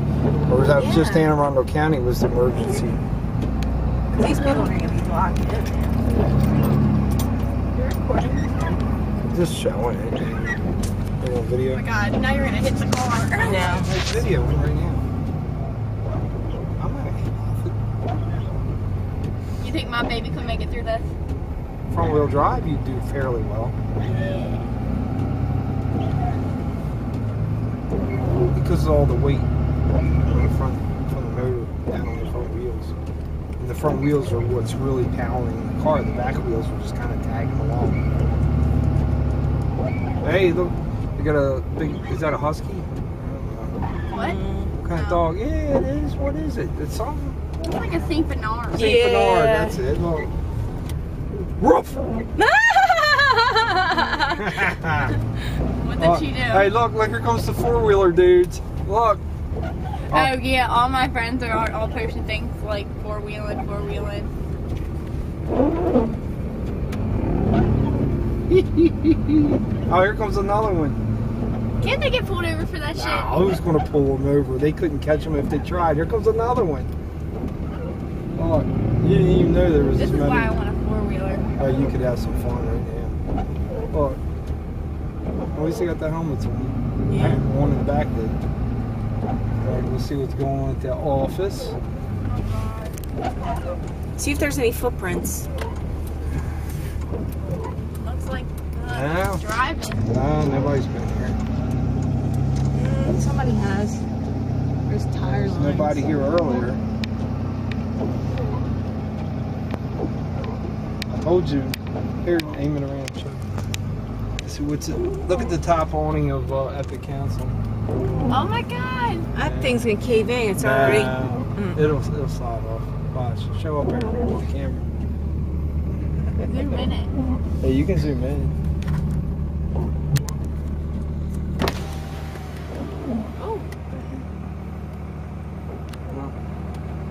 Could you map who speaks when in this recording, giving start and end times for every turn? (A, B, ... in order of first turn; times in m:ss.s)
0:00.5-0:03.0 A
0:04.1-0:05.9 B
0:06.1-0:06.8 C
0:07.7-0:08.8 C
0:09.3-0:10.6 A
0:11.2-0:11.8 A
0:11.7-0:13.6 C
0:13.4-0:15.0 A
0:13.4-0:13.9 B
0:16.8-0:17.8 A
0:19.6-0:21.1 C
0:21.9-0:23.8 A
0:24.0-0:24.6 C
0:28.5-0:29.5 A
0:30.3-0:32.9 A
0:33.6-0:38.0 A
0:40.2-0:43.8 A
0:44.1-0:45.2 C
0:44.2-0:44.7 B
0:44.8-0:47.4 A
0:47.6-0:48.9 C
0:48.7-0:49.8 B
0:48.8-0:50.3 A
0:51.3-0:52.0 A
0:52.4-0:54.4 B
0:54.3-0:55.1 A
0:55.8-0:56.7 C
0:56.0-0:59.2 A
1:00.1-1:04.3 C
1:00.1-1:00.4 A
1:08.5-1:11.0 A
1:11.8-1:13.5 C
1:12.9-1:16.9 A
1:18.4-1:20.6 A
1:20.0-1:21.4 C
1:21.6-1:23.2 A
1:23.9-1:24.2 A
1:25.5-1:28.4 A
1:29.6-1:31.8 A
1:32.3-1:33.0 C
1:34.2-1:35.5 B
1:38.0-1:40.0 C
1:38.9-1:39.4 A
1:40.0-1:41.4 A
1:42.7-1:44.0 B
1:44.9-1:46.0 B
1:45.2-1:46.8 A
1:51.1-1:53.4 A
1:54.4-1:57.6 A
1:58.3-1:59.3 C
1:59.3-2:01.8 B
1:59.4-1:59.8 A
2:00.6-2:04.9 A
2:06.4-2:07.1 C
2:07.6-2:08.5 A
2:13.4-2:14.2 C